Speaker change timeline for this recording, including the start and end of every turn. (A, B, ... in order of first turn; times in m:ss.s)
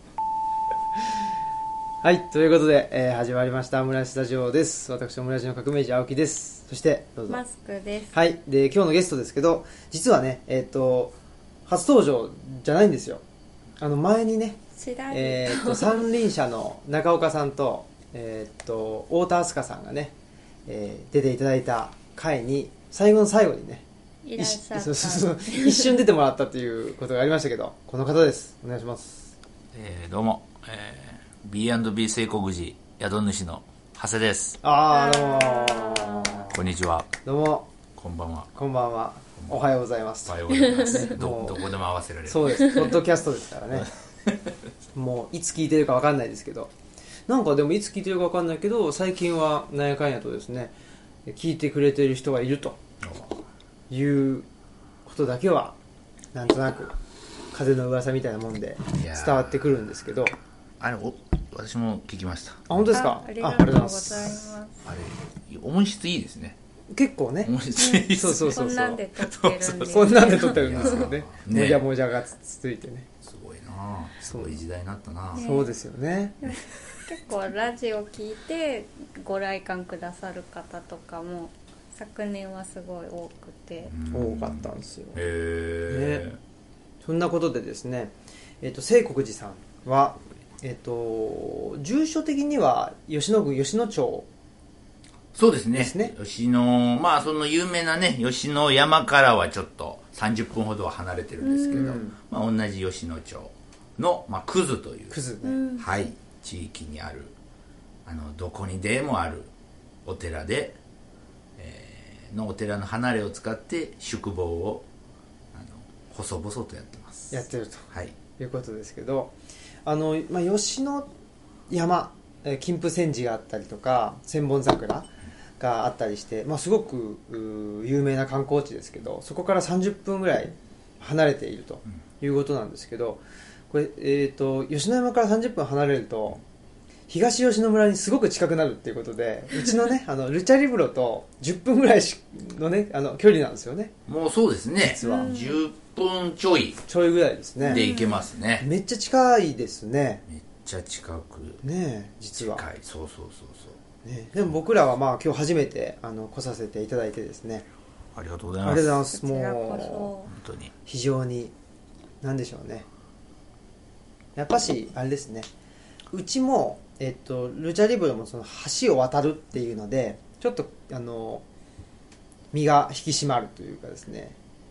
0:00.9-0:01.3 A
0:02.0-0:07.4 A
0:07.3-0:08.1 B
0:08.1-0:11.1 A
0:11.6-0:13.2 A
0:13.8-0:20.1 A
0:14.8-0:16.0 B
0:20.6-0:23.8 A
0:24.2-0:26.0 B
0:24.4-0:29.3 A
0:29.7-0:34.6 C
0:34.6-0:36.6 A
0:34.9-0:36.4 B
0:36.5-0:37.1 C
0:37.2-0:37.7 A
0:38.0-0:38.5 C
0:38.5-0:41.7 A
0:40.2-0:42.8 C
0:40.6-0:41.0 B
0:42.2-0:43.9 A
0:43.7-0:44.6 C
0:44.9-0:46.7 A
0:47.3-0:50.7 A
0:51.2-0:52.8 A
0:53.0-0:53.4 C
0:53.9-0:54.5 A
0:55.0-0:55.8 A
0:56.3-0:57.0 A
0:57.5-1:00.3 A
0:58.9-0:59.6 C
1:00.8-1:02.9 C
1:02.7-1:04.5 A
1:02.9-1:04.8 B
1:04.8-1:06.6 C
1:06.9-1:07.5 A
1:07.4-1:08.6 C
1:07.8-1:11.1 B
1:08.1-1:09.0 A
1:09.2-1:11.8 C
1:09.9-1:13.1 A
1:13.2-1:15.4 C
1:14.3-1:14.6 A
1:15.4-1:15.8 B
1:15.4-1:16.4 A
1:16.4-1:23.9 B
1:23.9-1:26.4 C
1:24.1-1:25.2 A
1:25.9-1:26.2 A
1:27.0-1:34.3 A
1:35.3-1:45.2 C
1:35.7-1:36.1 A
1:41.4-1:42.0 B
1:41.7-1:42.1 A
1:45.1-1:45.6 A
1:45.4-1:46.0 B
1:45.8-1:47.3 C
1:48.0-1:49.5 C
1:50.0-1:50.8 C
1:51.6-1:54.8 C
1:55.5-1:58.1 C
1:57.3-1:59.3 A
1:59.8-2:01.1 A
2:01.7-2:16.4 A
2:17.1-2:23.9 A
2:24.1-2:26.8 C
2:25.0-2:25.4 A
2:25.0-2:25.6 B
2:26.9-2:27.9 A
2:27.6-2:28.2 B
2:27.7-2:28.7 C
2:28.6-2:30.2 A
2:30.3-2:31.6 C
2:31.6-2:32.6 A
2:32.4-2:33.8 C
2:34.0-2:37.6 A
2:38.1-2:39.0 C
2:38.6-2:40.1 A
2:39.1-2:40.3 B
2:40.3-2:40.7 C
2:40.8-2:41.5 A
2:42.2-2:42.8 A
2:44.4-2:45.5 A
2:46.1-2:51.4 A
2:52.5-2:54.4 A